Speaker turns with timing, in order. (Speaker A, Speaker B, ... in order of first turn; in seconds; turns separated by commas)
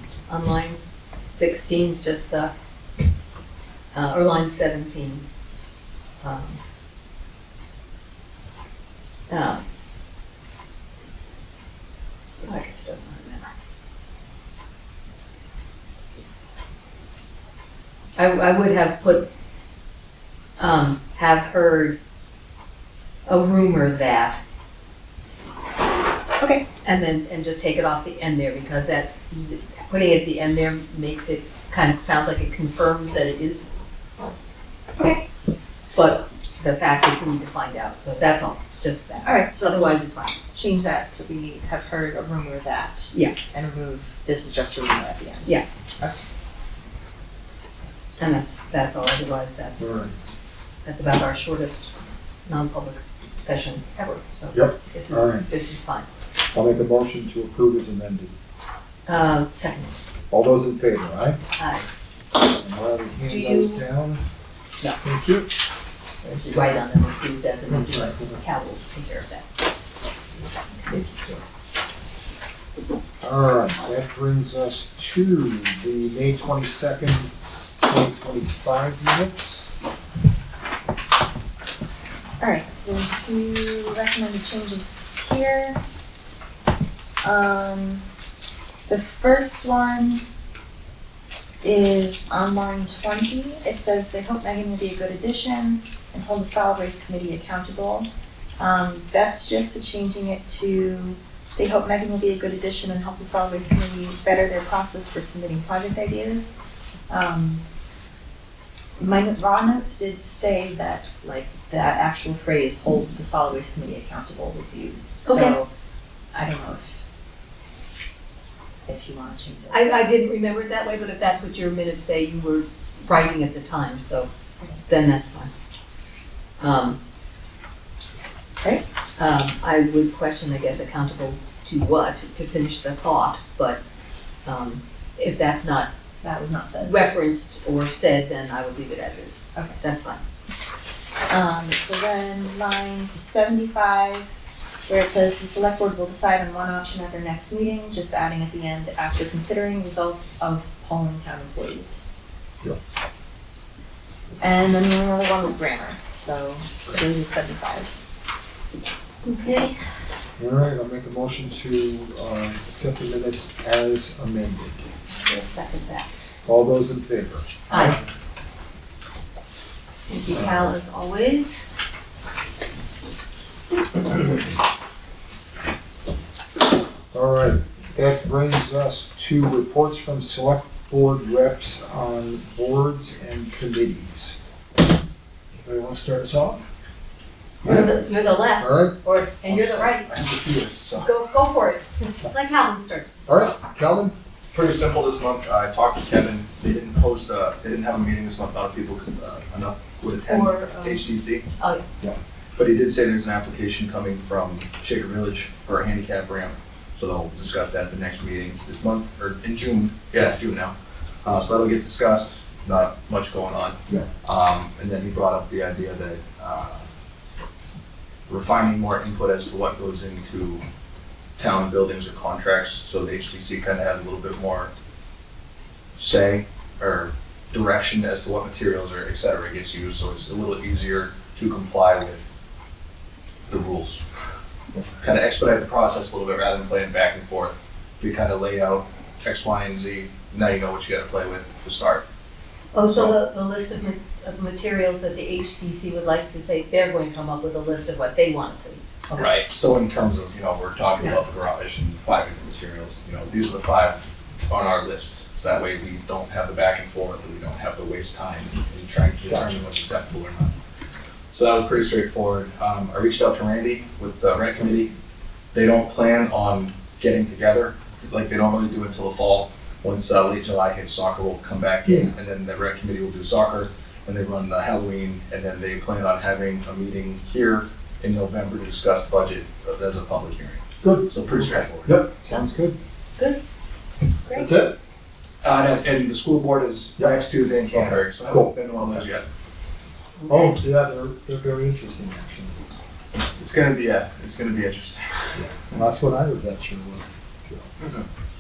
Speaker A: 0.3-2.5, Speaker A: 3.9-5.2, Speaker A: 6.2-6.6, Speaker A: 9.3-9.6, Speaker A: 12.4-13.5, Speaker A: 18.2-19.3, Speaker A: 20.6-22.0, Speaker A: 23.3-24.4, Speaker B: 26.4-26.6, Speaker A: 26.8-33.7, Speaker B: 35.0-35.2, Speaker A: 35.9-40.4, Speaker B: 39.2-46.1, Speaker A: 48.2-50.0, Speaker C: 49.8-50.1, Speaker A: 50.9-51.9, Speaker A: 52.5-56.1, Speaker C: 54.5-55.5, Speaker C: 56.5-58.3, Speaker A: 59.1-60.0, Speaker C: 60.3-61.4, Speaker A: 61.6-61.9, Speaker C: 62.4-64.2, Speaker A: 63.3-63.9, Speaker C: 65.0-65.5, Speaker A: 66.2-69.5, Speaker C: 67.7-68.3, Speaker C: 70.9-71.4, Speaker C: 73.2-77.3, Speaker C: 77.8-79.7, Speaker B: 82.4-85.8, Speaker B: 87.2-88.0, Speaker B: 88.9-90.2, Speaker B: 91.6-107.6, Speaker B: 109.0-115.7, Speaker A: 115.3-115.6, Speaker B: 116.3-117.0, Speaker B: 118.9-120.0, Speaker A: 119.7-124.3, Speaker A: 124.9-125.5, Speaker A: 126.6-127.0, Speaker A: 129.2-133.8, Speaker A: 134.4-135.9, Speaker B: 136.2-136.9, Speaker A: 136.8-140.2, Speaker B: 141.3-144.3, Speaker B: 144.9-152.1, Speaker B: 154.4-157.9, Speaker A: 159.2-159.8, Speaker C: 160.4-164.8, Speaker A: 165.1-166.1, Speaker C: 166.4-168.0, Speaker A: 167.7-168.0, Speaker A: 170.1-171.6, Speaker C: 170.3-170.7, Speaker C: 177.1-184.4, Speaker C: 185.6-186.6, Speaker A: 187.6-190.1, Speaker C: 187.6-188.0, Speaker C: 188.6-189.0, Speaker D: 189.5-191.1, Speaker A: 191.0-193.1, Speaker C: 193.3-194.2, Speaker D: 194.5-201.4, Speaker A: 200.3-201.1, Speaker A: 201.6-201.8, Speaker D: 202.6-216.9, Speaker D: 218.3-220.6, Speaker D: 221.4-224.7, Speaker D: 226.0-232.2, Speaker D: 233.5-234.0, Speaker D: 235.0-242.1, Speaker A: 242.7-249.2, Speaker D: 242.9-243.2, Speaker D: 249.1-260.6, Speaker C: 259.3-259.6, Speaker D: 261.3-264.9, Speaker D: 265.5-282.0, Speaker C: 280.8-282.8, Speaker A: 284.2-284.5, Speaker C: 284.3-284.8, Speaker D: 285.4-289.3, Speaker C: 287.0-289.1, Speaker A: 290.2-290.6, Speaker C: 290.3-292.6, Speaker D: 293.4-295.4, Speaker C: 295.4-297.7, Speaker D: 297.8-298.1